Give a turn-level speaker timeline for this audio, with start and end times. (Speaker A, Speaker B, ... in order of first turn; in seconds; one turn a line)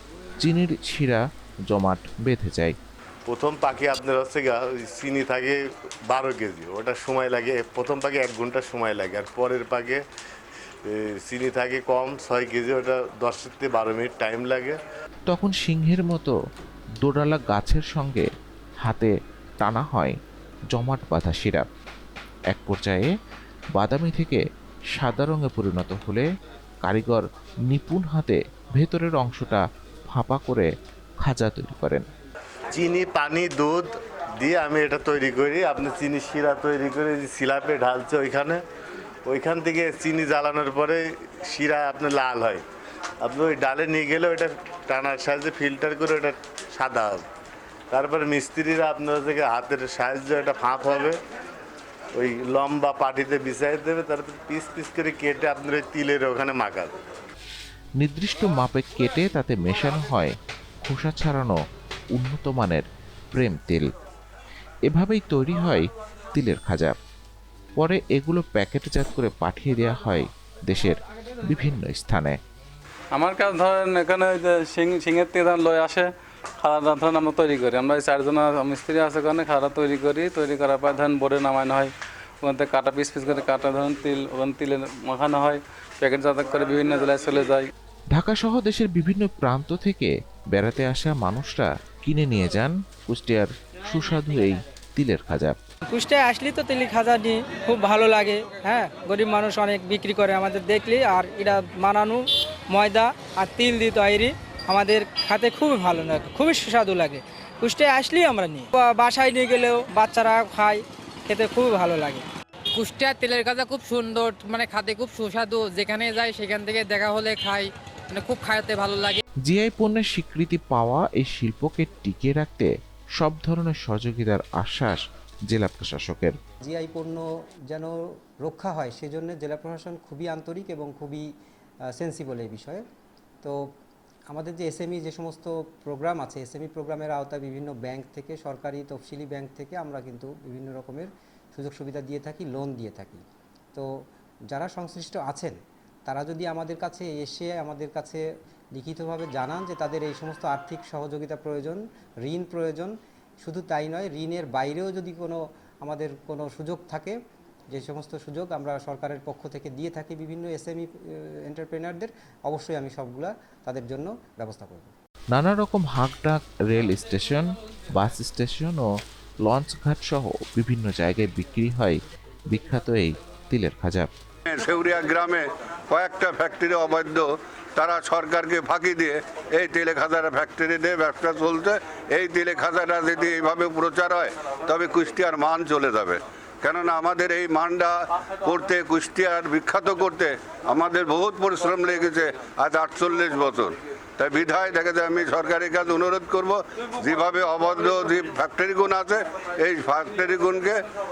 Speaker A: 0.4-2.8
Speaker B: 3.3-10.0
Speaker B: 10.8-14.8
Speaker A: 15.3-16.4
Speaker A: 17.0-18.3
Speaker A: 18.8-20.2
Speaker A: 20.7-21.7
Speaker A: 22.5-23.1
Speaker A: 23.8-24.4
Speaker A: 24.9-26.3
Speaker A: 26.8-32.1
Speaker B: 32.7-38.6
Speaker B: 39.3-42.6
Speaker B: 43.2-47.3
Speaker B: 47.9-51.2
Speaker B: 52.1-56.9
Speaker A: 58.0-61.6
Speaker A: 62.1-63.9
Speaker A: 64.9-67.0
Speaker A: 67.8-72.3
Speaker C: 73.2-87.7
Speaker A: 88.1-95.6
Speaker D: 95.9-112.2
Speaker E: 112.8-119.2
Speaker A: 119.5-126.3
Speaker F: 126.7-131.3
Speaker F: 132.0-132.8
Speaker F: 134.3-143.2
Speaker F: 144.5-157.2
Speaker F: 157.7-164.9
Speaker A: 165.3-168.9
Speaker A: 169.4-174.1
Speaker G: 174.5-200.8